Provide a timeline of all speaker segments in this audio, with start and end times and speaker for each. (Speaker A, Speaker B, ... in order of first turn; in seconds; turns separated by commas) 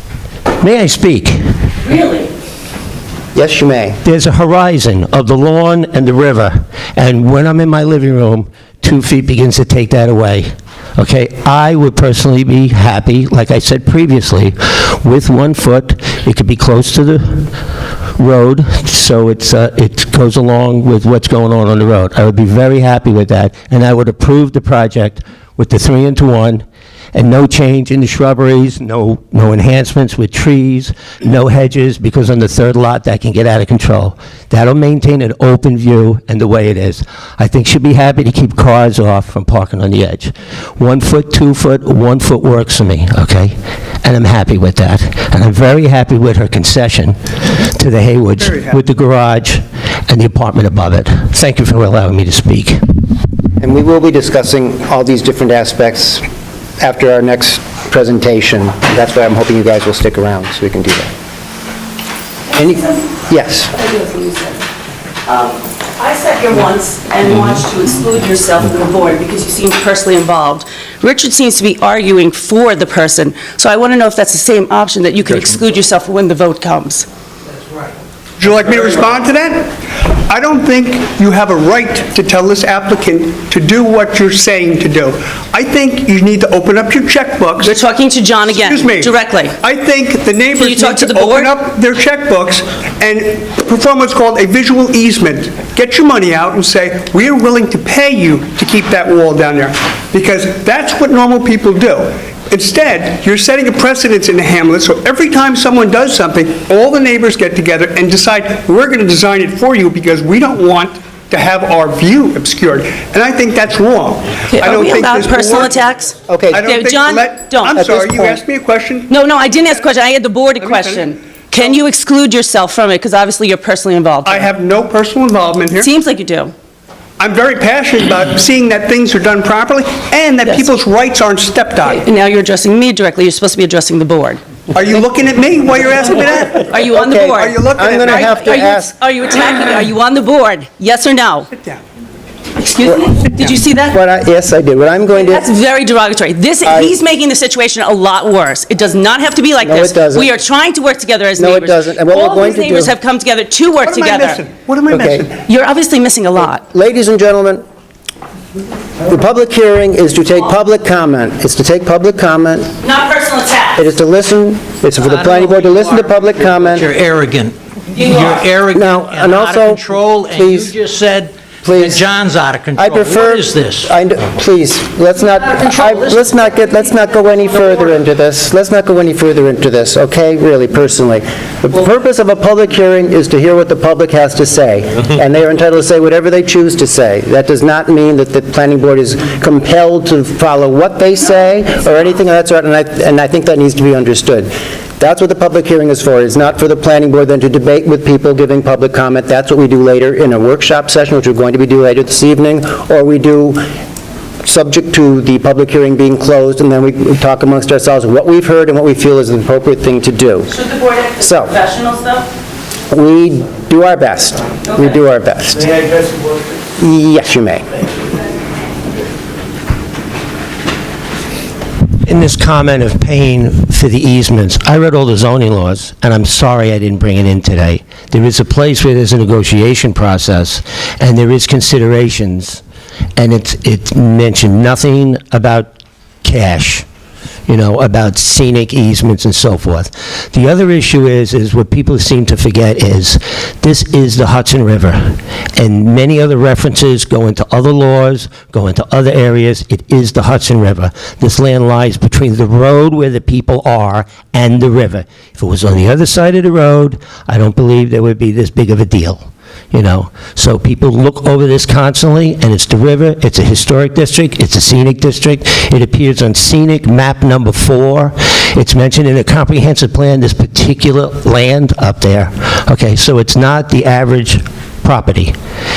Speaker A: 0.6-1.4, Speaker B: 1.8-2.3, Speaker C: 3.3-4.0, Speaker A: 4.0-17.6, Speaker A: 18.1-53.0, Speaker D: 48.4-48.8, Speaker C: 53.6-56.2, Speaker C: 56.8-61.1, Speaker B: 62.5-63.1, Speaker C: 62.5-63.7, Speaker B: 63.7-64.6, Speaker B: 65.2-77.0, Speaker D: 78.4-87.8, Speaker B: 87.6-89.6, Speaker D: 88.5-115.7, Speaker B: 90.5-91.5, Speaker B: 114.5-117.8, Speaker C: 116.3-116.7, Speaker D: 116.5-119.1, Speaker C: 117.8-118.4, Speaker B: 119.1-124.5, Speaker D: 120.6-121.1, Speaker D: 124.2-125.9, Speaker B: 125.7-126.5, Speaker D: 127.2-132.0, Speaker B: 130.4-130.7, Speaker B: 131.8-134.4, Speaker D: 134.7-136.7, Speaker B: 136.2-141.5, Speaker C: 136.7-138.9, Speaker D: 137.4-138.4, Speaker D: 141.5-141.8, Speaker B: 142.6-144.0, Speaker C: 143.9-145.4, Speaker B: 145.1-154.4, Speaker C: 146.6-146.9, Speaker C: 149.6-150.3, Speaker C: 151.4-152.9, Speaker D: 153.8-155.4, Speaker C: 154.9-155.3, Speaker B: 155.4-156.6, Speaker C: 156.4-157.6, Speaker C: 159.0-162.7, Speaker B: 162.8-163.9, Speaker C: 163.8-166.9, Speaker E: 165.0-173.9, Speaker B: 168.0-168.2, Speaker C: 168.7-170.7, Speaker C: 171.6-172.0, Speaker C: 172.8-203.7, Speaker E: 175.5-176.0, Speaker C: 204.4-210.5, Speaker B: 210.5-212.3, Speaker C: 211.2-211.5, Speaker C: 212.9-215.7, Speaker B: 214.7-215.0, Speaker C: 216.8-217.7, Speaker A: 222.0-232.6, Speaker A: 233.2-235.7, Speaker A: 236.2-236.8, Speaker A: 237.5-275.3